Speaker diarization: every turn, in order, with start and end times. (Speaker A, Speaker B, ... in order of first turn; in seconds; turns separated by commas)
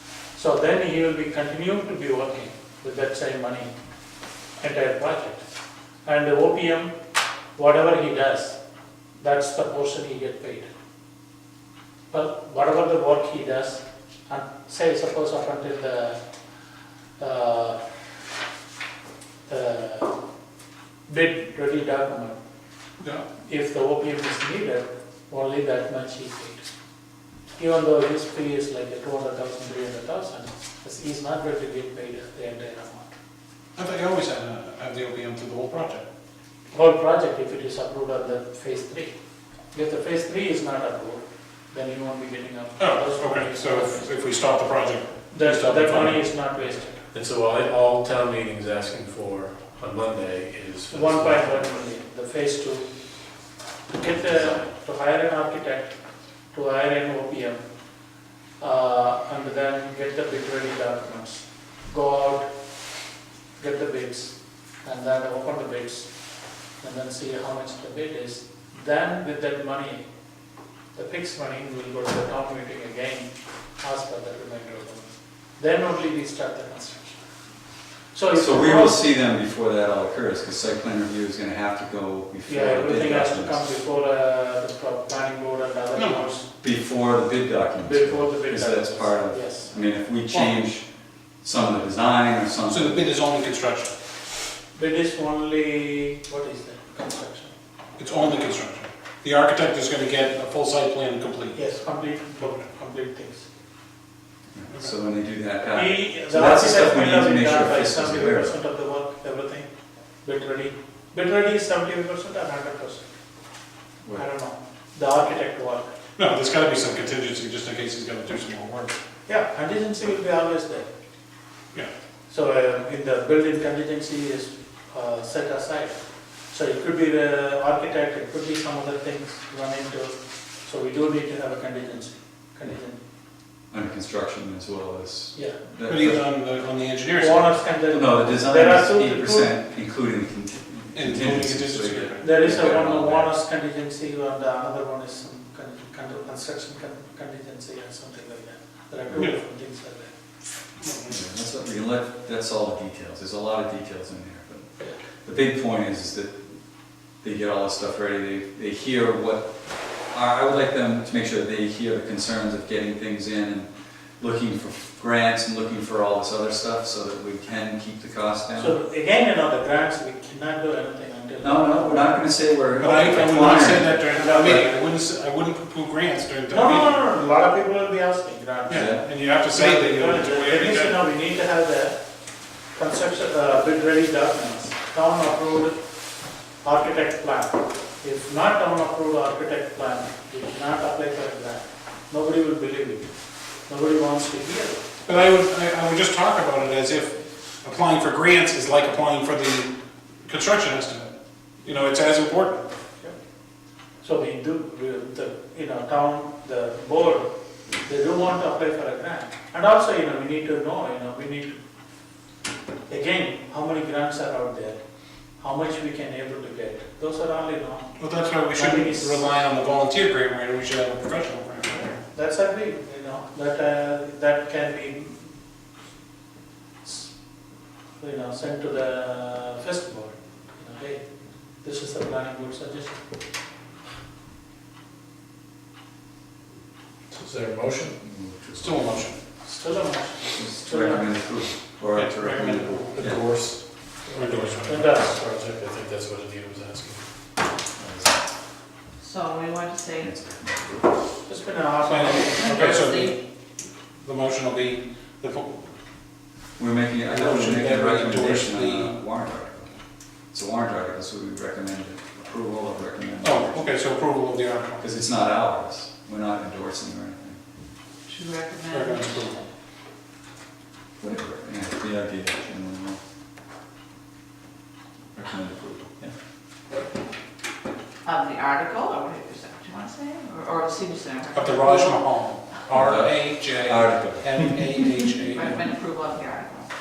Speaker A: 0.3-3.7, Speaker A: 4.6-5.4, Speaker A: 6.0-6.9, Speaker A: 7.5-8.6, Speaker A: 9.2-10.7, Speaker A: 12.1-16.2, Speaker A: 17.2-17.8, Speaker A: 19.5-20.2, Speaker A: 21.1-22.4, Speaker B: 23.0-23.2, Speaker A: 23.4-26.7, Speaker A: 27.6-33.1, Speaker B: 33.8-36.0, Speaker A: 36.7-39.1, Speaker A: 39.7-44.1, Speaker B: 42.8-46.1, Speaker A: 45.3-47.0, Speaker C: 47.1-51.8, Speaker A: 50.9-52.9, Speaker A: 53.9-56.0, Speaker A: 56.5-57.6, Speaker A: 58.6-62.5, Speaker A: 63.6-66.1, Speaker A: 66.8-70.1, Speaker A: 70.9-77.2, Speaker A: 78.1-79.0, Speaker D: 78.3-83.7, Speaker A: 82.5-86.5, Speaker B: 85.9-86.2, Speaker D: 86.6-90.8, Speaker A: 87.8-89.7, Speaker D: 91.4-93.0, Speaker B: 92.7-93.9, Speaker A: 94.7-97.5, Speaker B: 98.0-101.7, Speaker A: 101.5-103.5, Speaker D: 104.5-108.5, Speaker A: 105.7-109.7, Speaker A: 110.2-113.1, Speaker A: 114.2-115.9, Speaker B: 116.2-119.0, Speaker A: 119.3-120.9, Speaker A: 122.3-126.0, Speaker A: 126.5-133.0, Speaker D: 133.7-136.2, Speaker B: 135.9-137.6, Speaker A: 137.2-139.5, Speaker D: 137.9-143.3, Speaker B: 140.9-142.3, Speaker A: 142.2-150.1, Speaker B: 150.8-151.2, Speaker D: 151.1-156.6, Speaker D: 157.2-159.5, Speaker D: 160.1-168.7, Speaker A: 168.6-172.1, Speaker D: 171.4-174.6, Speaker B: 172.8-177.0, Speaker A: 173.9-174.7, Speaker A: 176.5-182.0, Speaker B: 178.7-181.0, Speaker D: 178.7-179.0, Speaker A: 182.7-185.8, Speaker A: 186.6-193.1, Speaker A: 193.7-194.8, Speaker B: 195.0-199.7, Speaker B: 200.2-201.1, Speaker B: 201.6-202.7, Speaker A: 204.0-207.3, Speaker A: 207.8-211.6, Speaker A: 212.9-214.8, Speaker A: 215.4-217.9, Speaker B: 218.0-222.0, Speaker A: 218.5-219.2, Speaker A: 222.0-225.2, Speaker A: 226.8-227.1, Speaker A: 228.0-231.0, Speaker A: 231.6-233.0, Speaker C: 237.1-238.0, Speaker D: 238.0-239.1, Speaker B: 238.5-239.2, Speaker A: 239.4-241.1, Speaker D: 240.3-243.2, Speaker B: 241.9-243.2, Speaker C: 242.9-247.0, Speaker A: 244.1-245.3, Speaker B: 244.1-244.9, Speaker D: 247.7-248.2, Speaker E: 249.0-250.1, Speaker D: 250.0-250.9, Speaker A: 251.2-252.9, Speaker B: 251.8-253.2, Speaker E: 252.3-253.2, Speaker B: 254.0-255.8, Speaker D: 256.6-259.7, Speaker B: 257.1-259.0, Speaker D: 260.3-263.6, Speaker B: 263.2-264.8, Speaker D: 264.8-267.4, Speaker E: 268.1-269.4, Speaker B: 268.7-269.4, Speaker D: 271.0-273.0, Speaker D: 275.1-276.1, Speaker E: 278.0-282.1, Speaker B: 281.3-285.6, Speaker D: 282.7-284.8, Speaker E: 285.3-286.7